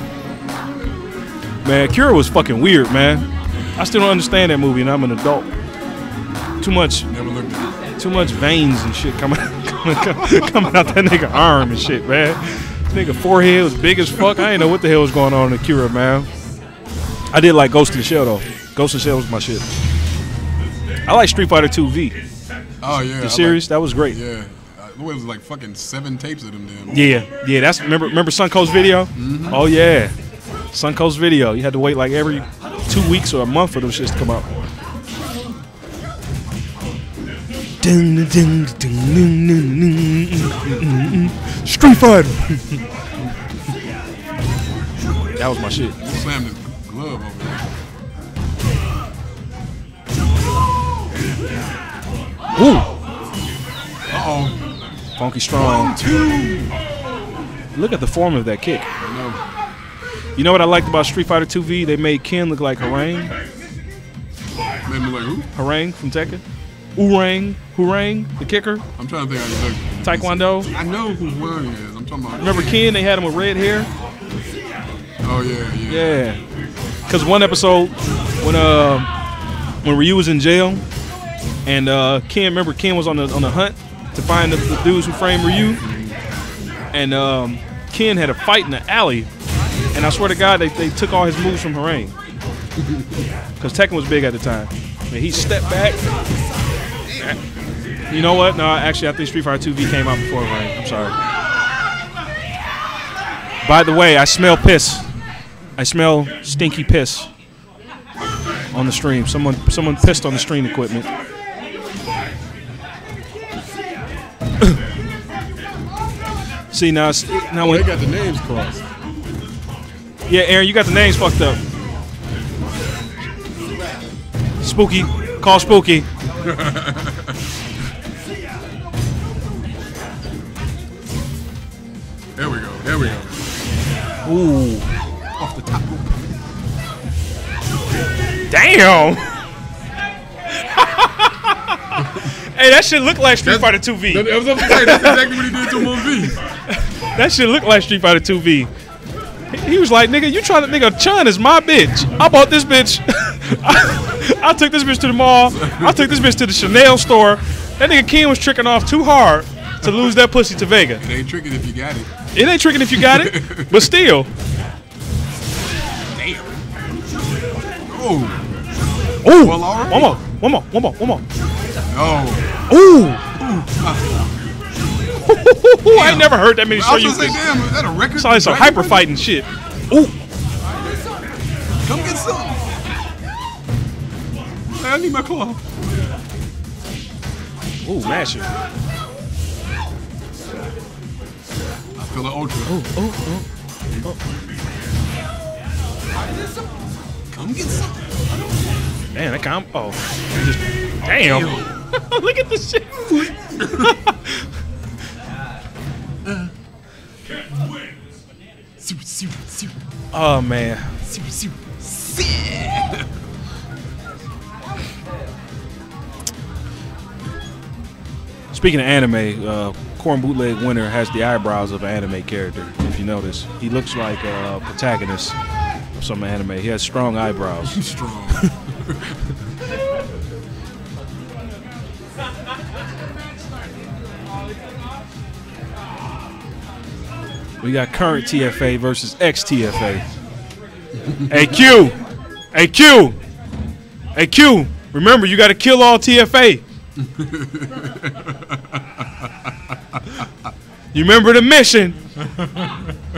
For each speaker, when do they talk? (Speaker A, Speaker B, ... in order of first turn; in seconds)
Speaker A: 1.6-5.6, 6.6-7.1, 8.0-16.3, 17.3-19.6, 21.1-22.2, 23.2-24.2, 26.9-30.1, 30.7-34.7, 37.8-42.8, 45.4-46.0, 52.6-52.9, 55.2-56.0, 57.8-58.9, 60.4-63.3, 65.5-66.4, 67.0-68.8, 70.0-70.7, 72.4-73.9, 75.9-76.4, 77.1-79.1, 79.8-80.8, 81.7-85.8, 86.9-89.3, 89.9-92.1, 93.6-96.0, 98.1-101.2, 103.6-105.1, 105.8-107.3, 108.7-111.1, 116.7-117.9, 120.3-121.6, 124.6-126.1, 134.2-134.9, 138.5-139.3, 140.7-148.7, 149.5-161.0, 162.3-164.3, 169.2-171.2, 172.7-173.2, 175.2-177.5, 178.1-180.1, 187.8-188.5, 192.7-193.5, 199.2-204.5, 210.1-211.0, 218.5-225.4, 226.0-227.8, 237.6-240.1, 241.2-242.0, 242.5-243.2, 244.2-246.6, 250.9-252.0
Speaker B: 7.1-7.8, 22.8-27.1, 29.2-29.6, 46.0-47.7, 54.1-54.6, 55.6-56.8, 59.0-59.4, 64.9-65.5, 69.0-72.7, 75.2-76.2, 85.8-86.2, 117.6-118.9, 126.4-127.3, 132.4-133.4, 135.4-136.3, 142.0-142.3, 143.4-146.4, 155.5-156.2, 161.0-162.1, 162.9-163.9, 166.1-166.5, 167.9-168.4, 169.3-170.2, 171.9-172.5, 173.4-174.2, 175.9-179.1, 181.8-182.6, 184.7-185.6, 192.0-192.8, 197.3-198.0, 201.1-201.7, 203.3-203.9, 206.2-206.5, 208.8-209.7, 211.1-213.1, 227.6-229.2, 247.0-249.3, 252.3-252.7